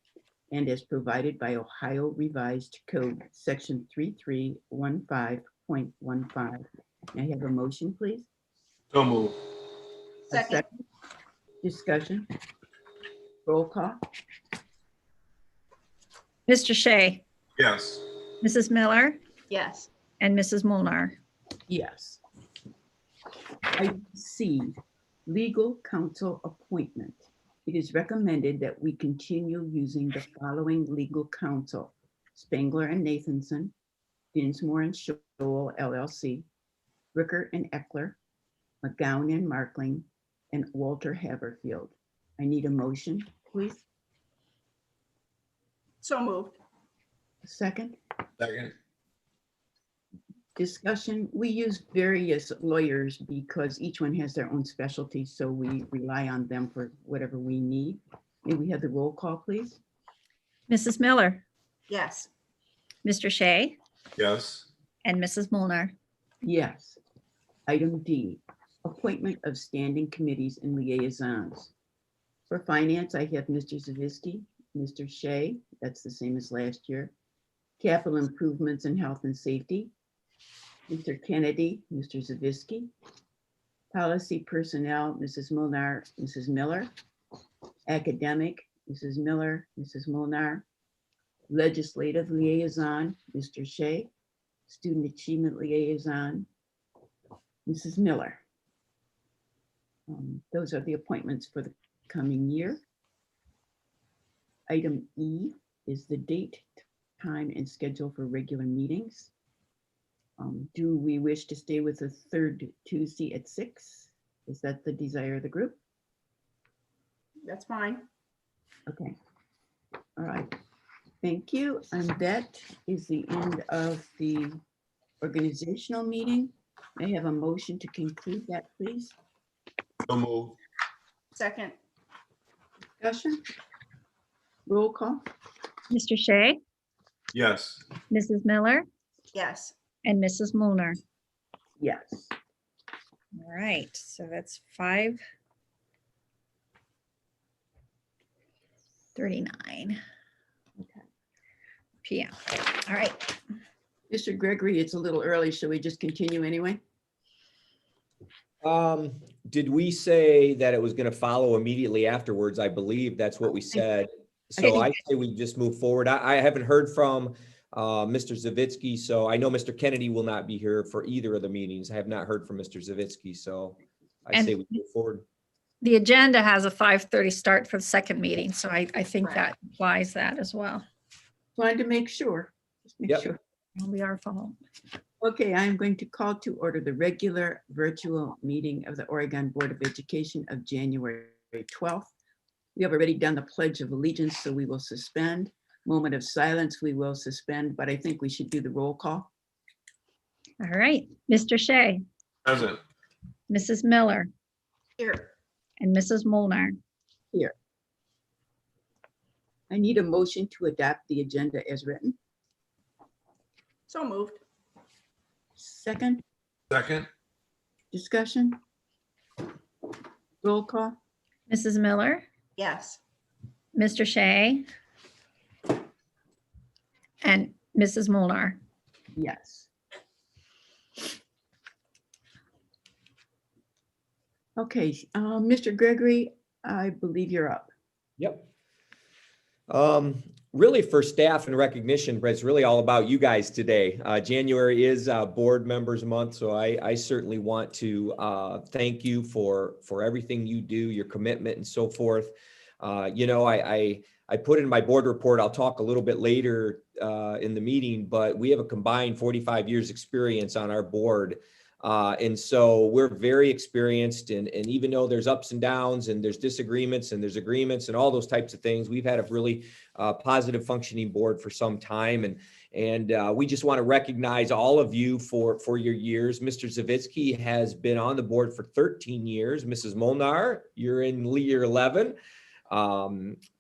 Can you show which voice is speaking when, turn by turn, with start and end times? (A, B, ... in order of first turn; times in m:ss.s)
0:00.5-0:08.3 A
0:08.9-0:09.4 B
0:10.3-0:10.7 A
0:10.3-0:10.6 C
0:11.6-0:12.3 A
0:13.4-0:14.0 A
0:16.5-0:17.2 D
0:17.6-0:18.0 B
0:18.4-0:19.2 D
0:19.5-0:19.9 C
0:20.2-0:21.2 D
0:21.7-0:22.2 A
0:23.7-0:24.7 A
0:25.3-0:33.7 A
0:34.3-0:36.5 A
0:37.1-0:38.2 A
0:38.8-0:43.8 A
0:46.0-0:46.6 C
0:47.4-0:48.0 A
0:48.4-0:48.7 B
0:50.6-0:59.8 A
1:00.7-1:01.4 D
1:01.9-1:02.3 C
1:03.0-1:03.8 D
1:04.2-1:04.7 B
1:05.0-1:05.9 D
1:06.4-1:07.0 A
1:07.7-1:11.7 A
1:12.5-1:17.1 A
1:17.8-1:19.9 A
1:20.9-1:22.9 A
1:23.9-1:26.9 A
1:27.9-1:30.6 A
1:31.5-1:34.1 A
1:34.7-1:36.5 A
1:37.7-1:38.4 A
1:40.1-1:42.8 A
1:44.7-1:49.3 A
1:50.4-1:55.8 A
1:57.4-1:58.0 C
1:58.9-1:59.2 A
2:00.2-2:00.5 A
2:01.2-2:04.6 A
2:05.2-2:09.2 A
2:10.1-2:10.6 B
2:11.3-2:11.7 C
2:13.0-2:13.4 A
2:14.7-2:15.2 A
2:15.9-2:16.6 D
2:17.3-2:17.8 B
2:18.1-2:18.8 D
2:19.3-2:19.7 C
2:20.0-2:21.0 D
2:21.8-2:22.3 A
2:23.4-2:25.2 D
2:29.1-2:30.0 D
2:32.0-2:33.4 D
2:34.1-2:36.8 A
2:38.6-2:55.2 E
2:54.3-2:54.6 D
2:55.8-3:00.8 D
3:01.6-3:03.4 A
3:03.8-3:04.6 D
3:05.2-3:12.1 A
3:12.7-3:19.3 A
3:20.6-3:22.0 D
3:22.4-3:22.8 B
3:23.5-3:24.3 D
3:25.0-3:25.3 C
3:25.8-3:26.7 D
3:29.7-3:32.2 A
3:33.9-3:34.4 C
3:35.6-3:36.2 A
3:36.7-3:37.1 B
3:37.9-3:38.6 A
3:40.4-3:41.0 A
3:41.5-3:42.2 D
3:42.6-3:43.0 C
3:43.7-3:44.6 D
3:47.2-3:48.6 D
3:49.2-3:49.7 A
3:54.6-3:57.7 A
3:58.2-3:58.4 E
3:59.7-4:42.2 E
4:42.7-4:43.4 E